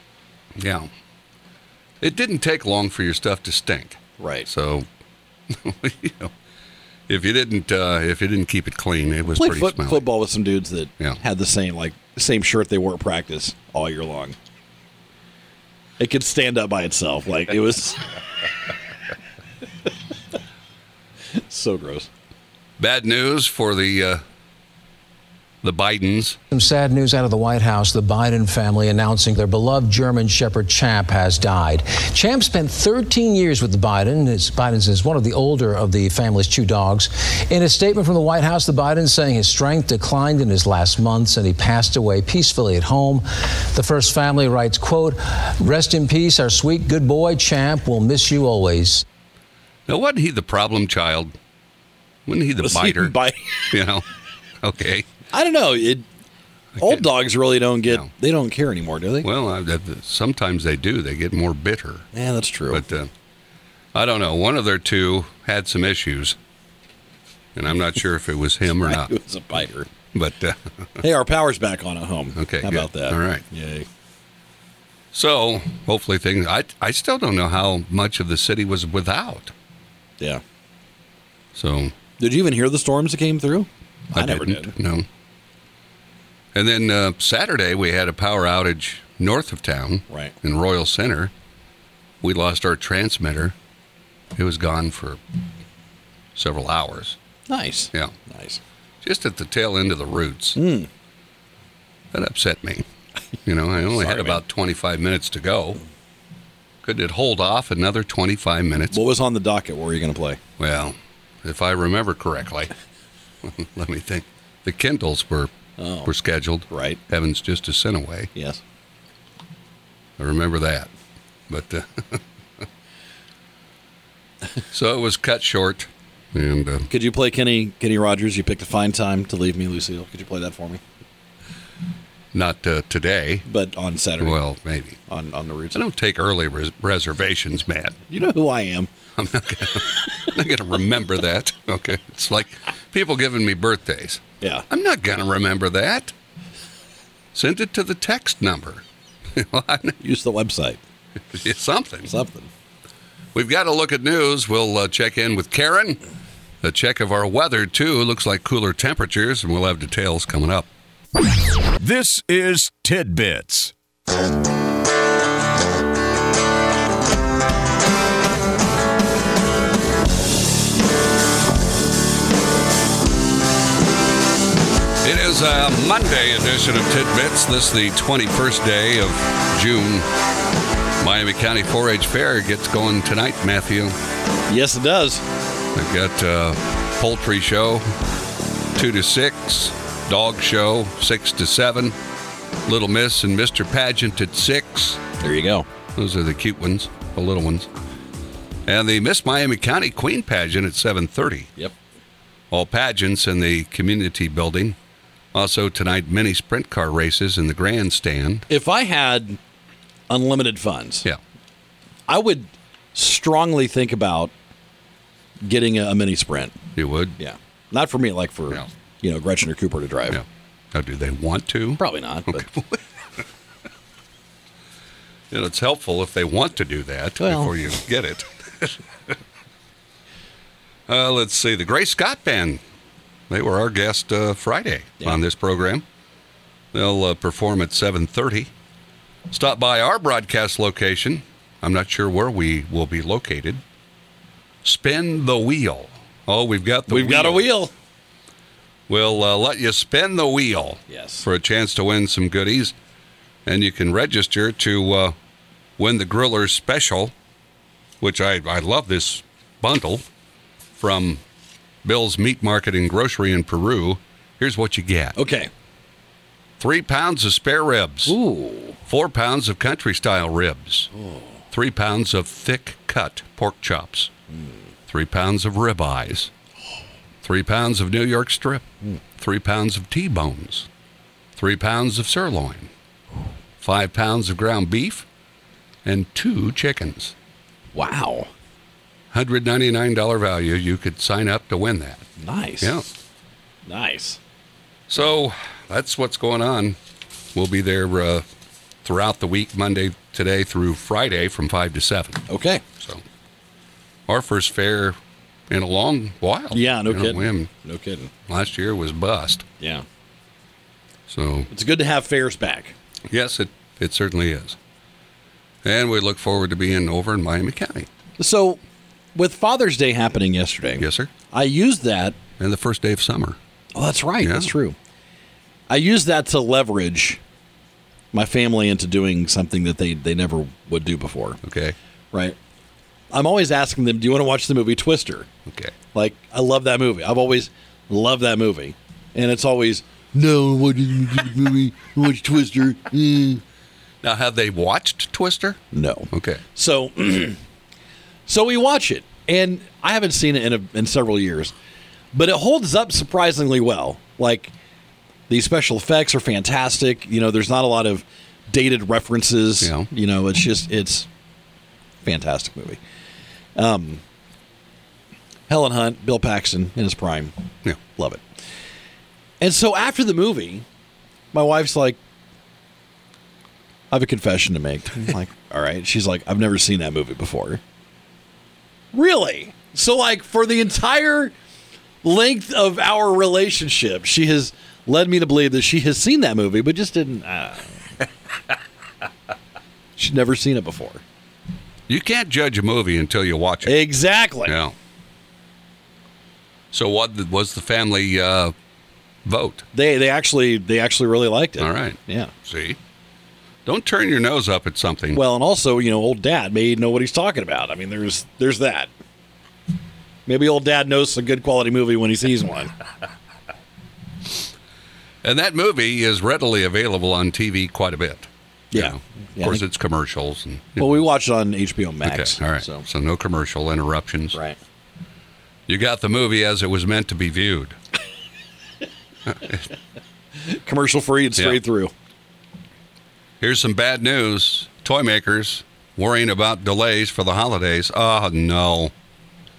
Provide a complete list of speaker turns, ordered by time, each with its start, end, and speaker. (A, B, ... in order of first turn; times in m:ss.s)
0:00.6-0:00.9 A
0:02.0-0:04.8 A
0:04.2-0:04.5 B
0:05.5-0:06.3 A
0:07.1-0:10.0 A
0:09.3-0:14.4 B
0:16.0-0:18.2 B
0:21.3-0:22.1 B
0:22.8-0:24.2 A
0:25.6-0:26.4 A
0:26.5-0:49.0 C
0:49.9-0:51.3 A
0:52.3-0:53.1 A
0:52.6-0:53.8 B
0:53.7-0:54.0 A
0:54.6-0:55.0 A
0:55.3-0:56.0 B
0:56.8-0:57.0 A
0:56.8-0:59.3 B
0:59.2-1:02.1 A
1:02.1-1:02.8 B
1:02.7-1:03.1 A
1:03.9-1:06.4 A
1:07.6-1:09.1 A
1:08.8-1:09.9 B
1:10.1-1:10.6 A
1:11.0-1:13.9 B
1:12.4-1:13.4 A
1:15.1-1:19.5 A
1:21.5-1:21.9 A
1:22.2-1:24.7 B
1:24.1-1:25.0 A
1:26.5-1:31.3 A
1:32.2-1:33.5 A
1:34.4-1:35.2 A
1:36.3-1:37.2 A
1:37.5-1:38.6 B
1:39.0-1:40.6 A
1:40.6-1:40.9 B
1:42.1-1:42.8 A
1:43.4-1:45.8 A
1:43.8-1:44.4 B
1:46.8-1:49.0 A
1:48.9-1:50.4 B
1:50.6-1:52.7 A
1:53.4-1:55.5 A
1:55.8-1:56.1 B
1:56.0-1:58.3 A
1:56.7-1:57.0 B
1:58.3-1:58.6 B
2:00.2-2:00.9 A
2:01.5-2:02.2 A
2:04.7-2:06.9 A
2:06.9-2:10.8 B
2:12.3-2:13.4 A
2:13.4-2:14.4 B
2:14.2-2:15.0 A
2:15.1-2:15.8 B
2:15.7-2:18.0 A
2:18.1-2:18.9 B
2:19.2-2:26.1 A
2:27.3-2:28.8 A
2:29.3-2:30.0 A
2:30.0-2:30.8 B
2:31.3-2:32.1 A
2:32.0-2:32.5 B
2:33.3-2:36.0 A
2:36.6-2:40.7 A
2:41.8-2:43.7 D
2:55.0-3:00.1 A
3:01.0-3:03.9 A
3:04.5-3:05.2 B
3:05.7-3:07.8 A
3:08.7-3:11.9 A
3:12.6-3:15.0 A
3:15.2-3:15.7 B
3:15.9-3:17.7 A
3:18.7-3:21.5 A
3:22.5-3:24.8 A
3:25.3-3:28.4 A
3:28.5-3:29.4 B
3:30.1-3:31.0 B
3:32.1-3:34.3 B
3:35.4-3:36.6 B
3:36.8-3:37.2 A
3:37.2-3:40.2 B
3:40.1-3:42.8 A
3:41.8-3:42.5 B
3:45.3-3:48.8 A
3:47.2-3:47.6 B
3:50.9-3:52.6 A
3:53.3-3:55.8 A
3:56.7-3:58.5 A
3:59.3-4:03.6 A
4:04.6-4:07.5 A
4:06.9-4:07.7 B
4:08.9-4:12.7 A
4:10.9-4:11.2 B
4:13.4-4:15.1 A
4:15.8-4:17.1 A
4:18.0-4:20.0 A
4:20.8-4:21.2 A
4:21.8-4:25.2 A
4:25.2-4:25.5 B
4:26.6-4:28.2 A
4:28.0-4:28.8 B
4:28.9-4:30.9 A
4:31.0-4:31.3 B
4:31.5-4:34.1 A
4:34.9-4:36.3 A
4:37.2-4:38.6 A
4:39.2-4:40.7 A
4:41.4-4:42.7 A
4:43.6-4:45.0 A
4:45.8-4:47.1 A
4:47.7-4:48.3 B
4:49.1-4:52.0 A
4:52.2-4:52.7 B
4:53.6-4:54.2 B
4:54.9-4:56.8 A
4:57.3-4:58.2 A
4:58.8-5:02.2 A
5:02.3-5:02.6 B
5:04.1-5:05.0 A
5:05.5-5:07.5 A
5:06.5-5:08.1 B
5:08.3-5:09.4 A
5:09.6-5:09.8 B
5:11.1-5:11.5 A
5:11.5-5:12.7 B
5:13.1-5:14.6 A
5:15.6-5:17.9 A
5:18.2-5:18.6 B
5:19.1-5:22.2 B
5:20.8-5:21.1 A
5:22.4-5:23.4 A
5:23.7-5:24.8 B
5:24.2-5:24.5 A
5:25.7-5:27.2 B
5:28.1-5:31.4 B
5:31.4-5:31.8 A
5:33.1-5:35.3 B
5:35.5-5:35.7 A
5:35.9-5:43.4 B
5:44.0-5:45.6 A
5:45.7-5:47.4 B
5:46.1-5:46.4 A
5:48.3-5:51.5 B
5:52.1-5:54.5 B
5:55.3-6:01.1 B
5:59.6-5:59.9 A
6:02.0-6:02.8 B
6:03.6-6:04.0 B
6:05.5-6:07.3 B
6:08.0-6:08.2 B
6:09.4-6:10.6 B
6:11.3-6:12.0 B
6:13.9-6:17.6 B
6:18.9-6:21.3 B
6:22.0-6:28.0 B
6:30.0-6:31.0 B
6:31.9-6:33.8 A
6:33.6-6:34.6 B
6:34.4-6:34.7 A
6:36.7-6:38.5 A
6:39.2-6:39.6 A
6:39.7-6:42.3 B
6:41.6-6:42.8 A
6:43.6-6:45.2 A
6:45.1-6:48.9 B
6:50.2-6:52.7 B
6:55.2-7:00.9 A
6:58.7-6:59.6 B
7:00.8-7:02.8 B
7:02.0-7:04.4 A
7:05.7-7:07.8 A
7:09.3-7:09.6 A
7:10.3-7:11.9 B
7:13.4-7:18.9 A